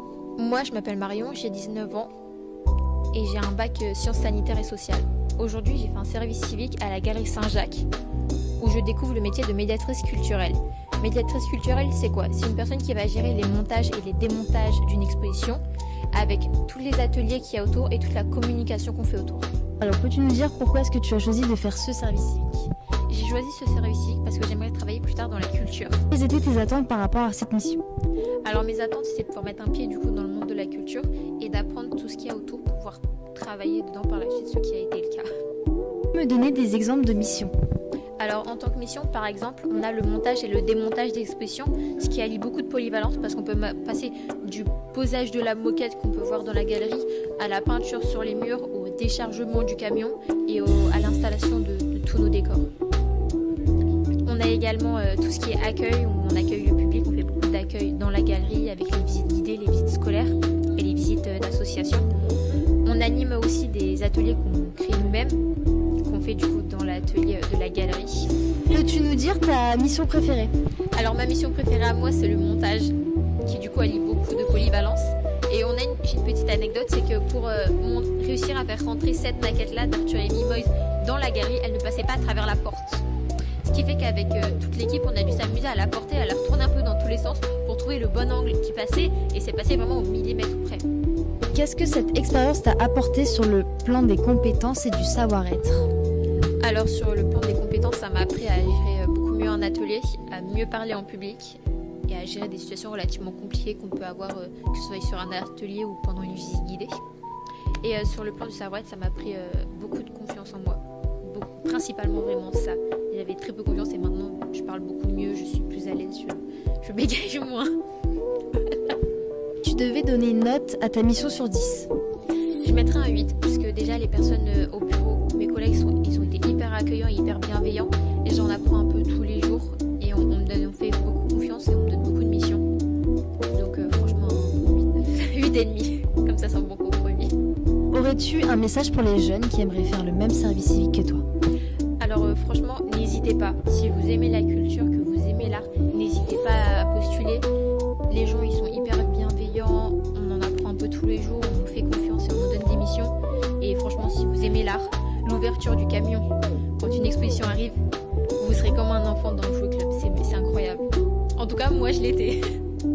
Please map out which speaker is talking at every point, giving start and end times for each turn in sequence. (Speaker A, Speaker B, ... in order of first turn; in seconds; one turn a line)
Speaker A: 0.4-2.1
Speaker A: 3.1-7.9
Speaker A: 8.6-15.6
Speaker A: 16.1-19.5
Speaker B: 19.8-22.7
Speaker A: 23.1-26.0
Speaker B: 26.1-27.8
Speaker A: 28.4-35.3
Speaker B: 36.1-37.5
Speaker A: 38.2-52.7
Speaker A: 54.2-62.1
Speaker A: 62.8-65.4
Speaker A: 66.0-68.3
Speaker B: 68.7-70.5
Speaker A: 70.9-83.0
Speaker A: 83.6-90.8
Speaker B: 91.5-95.9
Speaker A: 96.6-107.0
Speaker A: 107.8-117.7
Speaker A: 118.6-118.9
Speaker B: 119.6-121.9
Speaker A: 122.6-132.7
Speaker A: 133.5-137.3
Speaker B: 137.9-141.2
Speaker A: 142.0-147.5
Speaker A: 148.1-157.8
Speaker A: 158.4-162.4